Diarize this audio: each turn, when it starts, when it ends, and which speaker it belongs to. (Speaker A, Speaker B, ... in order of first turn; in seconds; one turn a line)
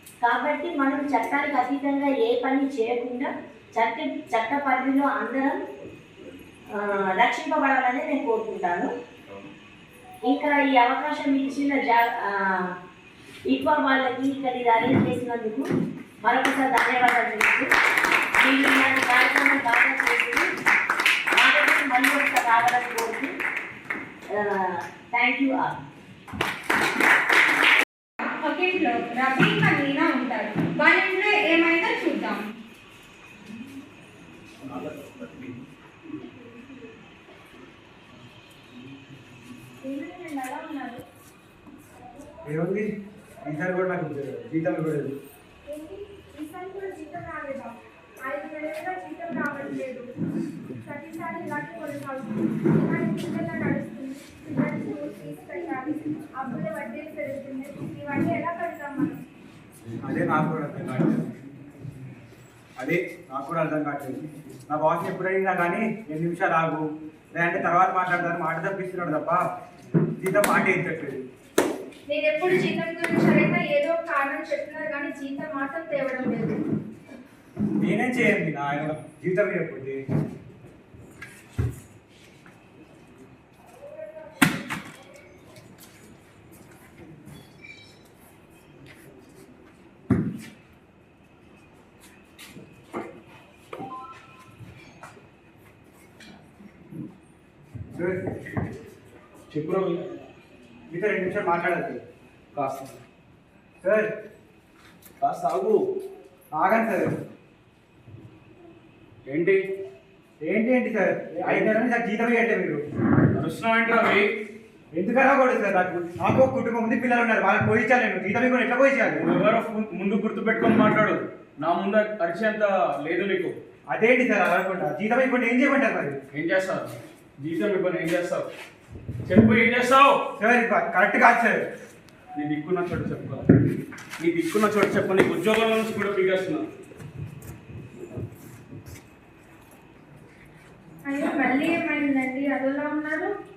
Speaker A: 0.2-5.6
Speaker A: 6.8-8.9
Speaker A: 10.3-12.7
Speaker A: 13.5-15.7
Speaker A: 16.2-17.7
Speaker A: 18.4-20.5
Speaker A: 21.4-23.3
Speaker A: 24.3-25.8
Speaker B: 28.2-32.5
Speaker C: 39.8-41.0
Speaker D: 42.5-42.9
Speaker D: 43.5-45.2
Speaker C: 45.7-50.1
Speaker C: 50.8-59.2
Speaker D: 60.0-61.3
Speaker D: 62.8-66.8
Speaker D: 67.3-69.5
Speaker D: 70.2-71.3
Speaker C: 72.1-76.6
Speaker D: 77.8-80.0
Speaker D: 98.0-98.2
Speaker E: 99.5-100.2
Speaker D: 100.9-102.0
Speaker E: 102.5-103.0
Speaker D: 103.8-104.1
Speaker E: 105.2-105.8
Speaker D: 106.6-107.1
Speaker E: 109.3-109.6
Speaker D: 110.4-112.8
Speaker E: 113.3-114.3
Speaker D: 115.0-119.2
Speaker E: 119.2-123.5
Speaker D: 123.9-126.2
Speaker E: 126.3-128.5
Speaker E: 129.3-130.2
Speaker D: 130.4-131.7
Speaker E: 132.4-133.4
Speaker E: 134.2-136.7
Speaker C: 141.1-143.3